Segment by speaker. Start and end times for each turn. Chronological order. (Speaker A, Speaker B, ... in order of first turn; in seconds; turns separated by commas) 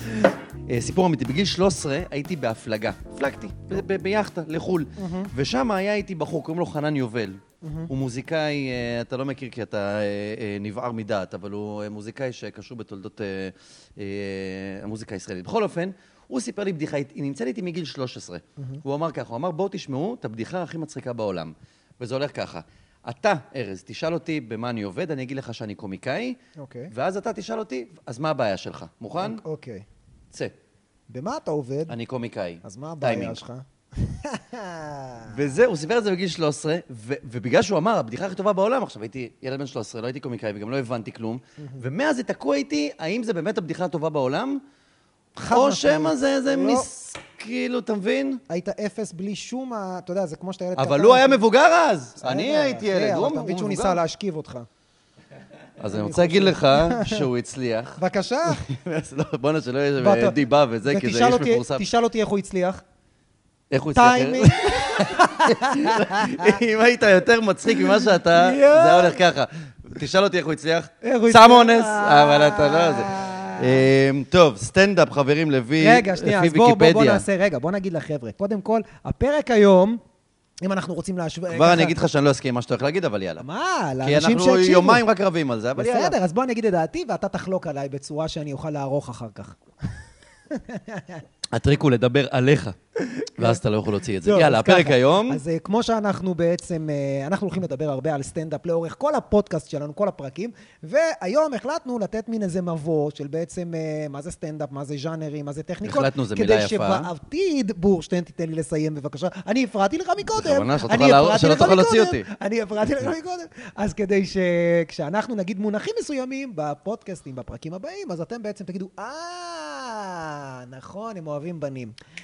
Speaker A: 0.7-26.4, Speaker B: 5.0-5.3, Speaker B: 7.6-7.9, Speaker B: 26.6-26.9, Speaker A: 26.9-29.4, Speaker B: 29.2-29.8, Speaker B: 31.1-31.9, Speaker A: 31.9-33.4, Speaker B: 32.6-35.4, Speaker A: 35.3-44.6, Speaker B: 41.6-41.9, Speaker B: 45.4-46.9, Speaker A: 45.5-48.4, Speaker B: 48.5-51.4, Speaker A: 50.7-54.0, Speaker B: 52.2-54.7, Speaker A: 55.8-61.8, Speaker B: 55.9-57.3, Speaker B: 58.0-58.6, Speaker B: 60.0-62.8, Speaker A: 63.7-77.2, Speaker B: 63.9-66.6, Speaker B: 67.8-69.2, Speaker B: 71.0-73.9, Speaker B: 75.8-80.0, Speaker B: 80.6-81.9, Speaker A: 81.5-83.4, Speaker B: 83.4-85.0, Speaker A: 84.0-86.2, Speaker B: 85.8-89.6, Speaker B: 90.5-91.2, Speaker A: 91.5-95.4, Speaker B: 94.2-121.9, Speaker A: 105.8-107.1, Speaker A: 110.3-112.2